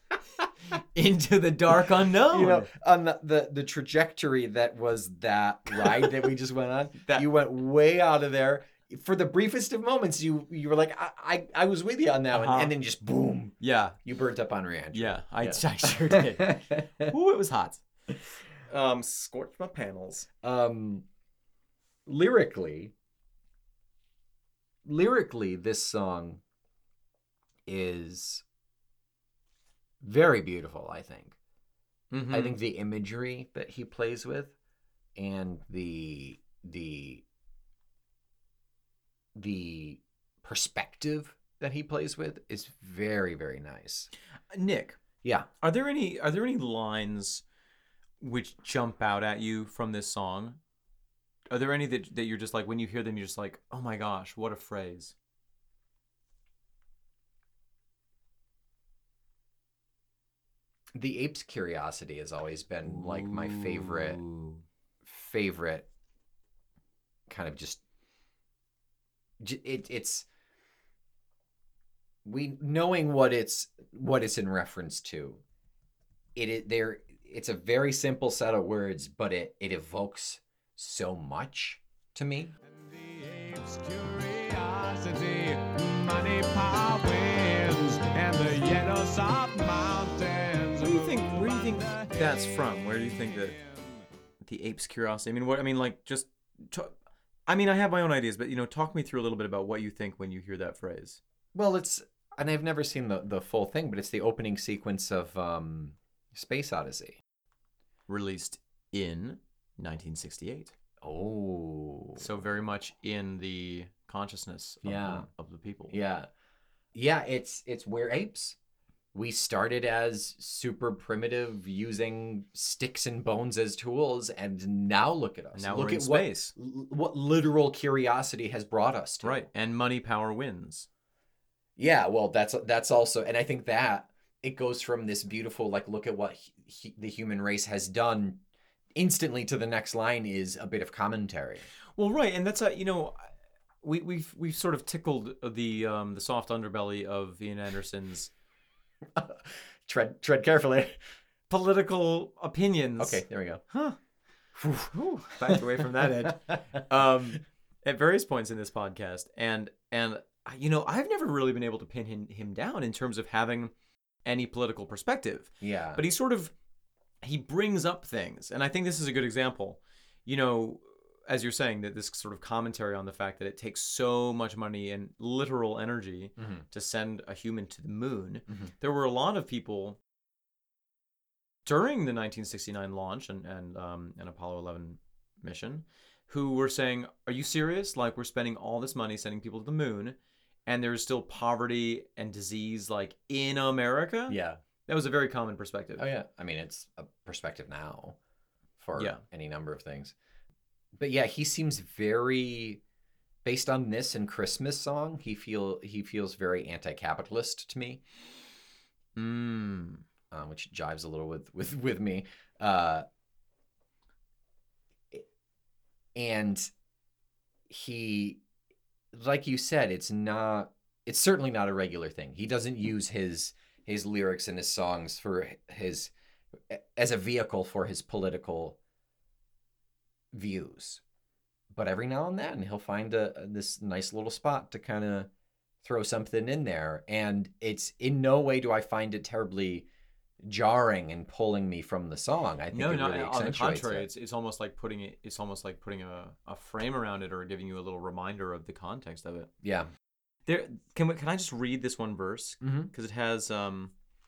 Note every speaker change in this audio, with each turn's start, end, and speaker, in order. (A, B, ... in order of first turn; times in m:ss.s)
0:00.7-0:02.7 A
0:02.3-0:17.0 B
0:12.3-0:12.7 A
0:13.6-0:14.0 A
0:14.9-0:17.8 A
0:18.6-0:20.3 A
0:20.4-0:21.0 B
0:22.1-0:22.9 B
0:24.8-0:26.4 B
0:27.7-0:28.4 B
0:30.0-0:31.4 B
0:32.1-0:32.6 A
0:32.3-0:34.5 B
0:35.2-0:37.2 B
0:39.4-0:44.1 B
0:44.5-0:45.0 A
0:45.6-0:47.4 A
0:48.2-0:50.6 A
0:51.5-0:55.2 A
1:01.0-1:04.2 B
1:02.8-1:04.6 A
1:05.0-1:05.9 B
1:07.3-1:07.8 B
1:09.4-1:10.3 B
1:12.2-1:15.4 B
1:16.4-1:22.6 B
1:22.6-1:34.0 C
1:30.8-1:33.6 A
1:34.4-1:37.0 A
1:37.5-1:41.2 A
1:41.5-1:47.2 B
1:48.1-1:50.8 A
1:51.0-1:52.4 B
1:52.2-1:56.0 A
1:54.8-1:55.3 B
1:55.9-1:56.3 B
1:56.9-1:58.6 B
1:59.1-2:09.5 B
2:05.6-2:06.5 A
2:09.2-2:10.9 A
2:11.8-2:18.4 B
2:19.0-2:21.7 B
2:22.0-2:23.3 A
2:23.8-2:28.3 A
2:29.2-2:31.0 B
2:31.5-2:34.0 A
2:33.0-2:33.6 B
2:34.6-2:36.5 B
2:34.9-2:43.7 A
2:44.2-2:46.5 A
2:45.6-2:46.0 B
2:47.2-3:00.0 A
2:56.4-2:56.6 B
3:01.6-3:10.2 A
3:10.7-3:16.1 A
3:14.3-3:14.6 B
3:16.0-3:18.2 B
3:18.8-3:20.2 B
3:19.0-3:19.2 A
3:21.0-3:22.8 B
3:23.4-3:28.0 B
3:29.2-3:30.0 A
3:30.3-3:33.1 B
3:36.2-3:36.7 B
3:37.7-3:38.4 B
3:39.1-3:46.1 B
3:46.7-3:48.8 B
3:50.3-3:51.0 B
3:51.7-3:55.3 B
3:55.8-3:59.9 B
4:00.4-4:04.1 B
4:02.7-4:09.5 A
4:09.6-4:09.9 B
4:10.5-4:13.9 A
4:12.6-4:12.9 B